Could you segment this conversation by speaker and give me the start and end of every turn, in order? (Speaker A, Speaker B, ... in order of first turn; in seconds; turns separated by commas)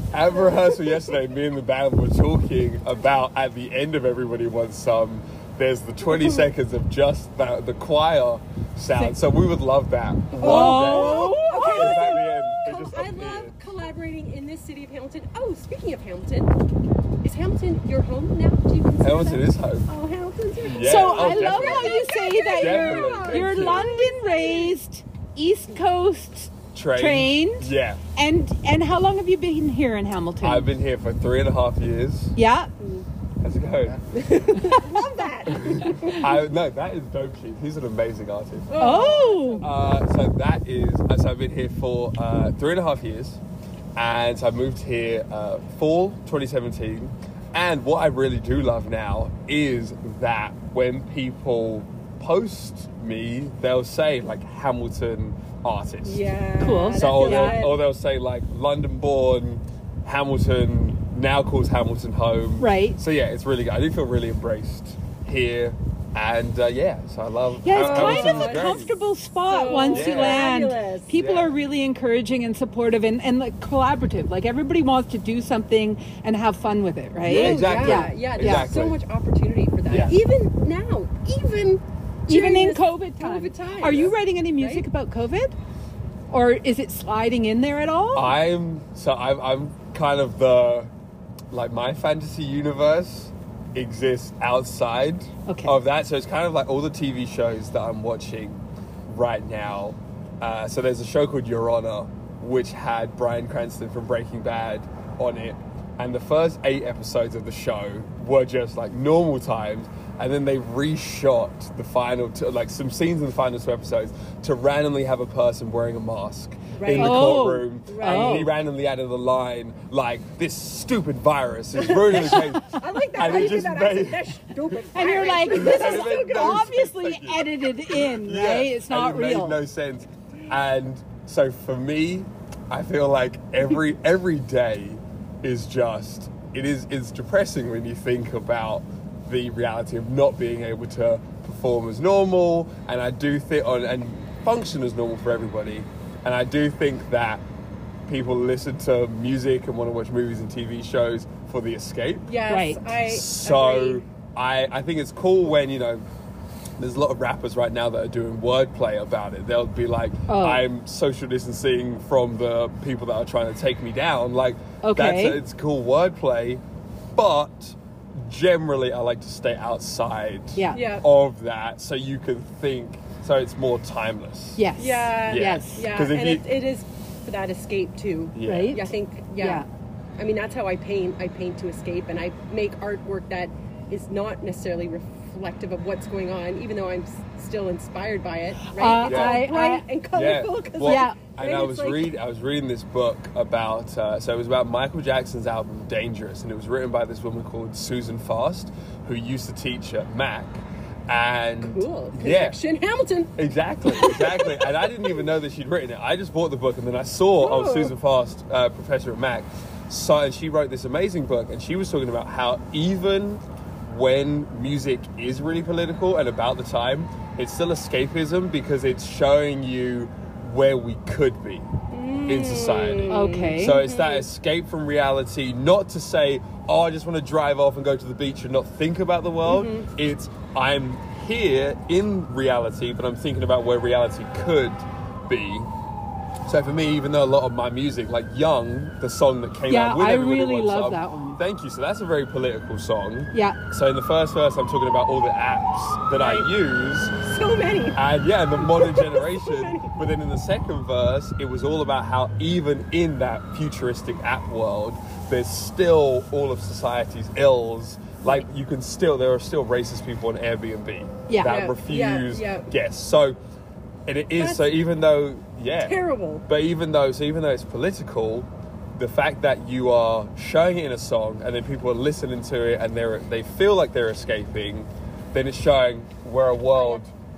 Speaker A: 0.1-13.5, Speaker B: 0.3-1.1, Speaker B: 6.1-6.4, Speaker B: 10.4-16.5, Speaker C: 10.4-12.1, Speaker B: 17.2-24.7, Speaker A: 19.0-19.9, Speaker A: 20.6-23.9, Speaker C: 20.7-30.7, Speaker A: 26.7-28.0, Speaker A: 30.4-32.3, Speaker C: 32.4-32.7, Speaker B: 32.8-33.0, Speaker A: 33.4-34.1, Speaker B: 34.1-36.3, Speaker C: 34.6-35.0, Speaker A: 35.5-38.8, Speaker B: 38.7-39.7, Speaker C: 38.8-39.6, Speaker A: 39.6-43.4, Speaker A: 44.0-56.2, Speaker B: 56.0-57.8, Speaker C: 56.6-57.6, Speaker A: 56.9-68.9, Speaker C: 62.6-63.0, Speaker C: 67.6-78.7, Speaker B: 67.7-68.8, Speaker B: 69.5-71.1, Speaker A: 69.9-70.5, Speaker A: 71.1-71.5, Speaker A: 77.2-79.0, Speaker B: 77.3-84.8, Speaker A: 79.8-80.2, Speaker C: 82.3-85.5, Speaker C: 86.3-88.3, Speaker A: 88.1-90.9, Speaker A: 91.5-124.3, Speaker C: 95.5-95.7, Speaker B: 116.7-118.5, Speaker C: 117.0-118.5, Speaker B: 122.1-126.7, Speaker C: 124.9-129.6, Speaker A: 125.5-147.4, Speaker A: 148.1-152.3, Speaker B: 152.3-154.0, Speaker C: 152.5-152.8, Speaker A: 153.0-156.0, Speaker A: 156.8-166.6, Speaker C: 160.3-160.6, Speaker C: 164.8-165.4, Speaker A: 167.1-174.7, Speaker C: 170.5-170.8, Speaker B: 170.7-171.0, Speaker C: 174.6-175.8, Speaker B: 174.8-179.6, Speaker A: 175.2-176.4, Speaker A: 178.3-178.8, Speaker C: 178.4-179.7, Speaker B: 180.2-192.1, Speaker C: 188.6-189.8, Speaker A: 189.0-189.4, Speaker A: 190.1-202.6, Speaker C: 190.8-191.2, Speaker B: 201.6-203.3, Speaker A: 203.4-221.7, Speaker B: 203.9-204.8, Speaker B: 207.4-207.9, Speaker B: 221.9-224.2, Speaker A: 222.3-235.7, Speaker C: 223.1-223.8, Speaker B: 229.4-229.9, Speaker A: 236.4-247.1, Speaker C: 239.7-241.4, Speaker C: 243.3-243.6, Speaker B: 246.2-246.5, Speaker B: 247.2-248.0, Speaker A: 247.9-263.4, Speaker B: 248.6-250.0, Speaker C: 261.3-261.5, Speaker B: 261.4-262.7, Speaker A: 264.1-277.1, Speaker B: 264.4-264.7, Speaker B: 265.8-266.4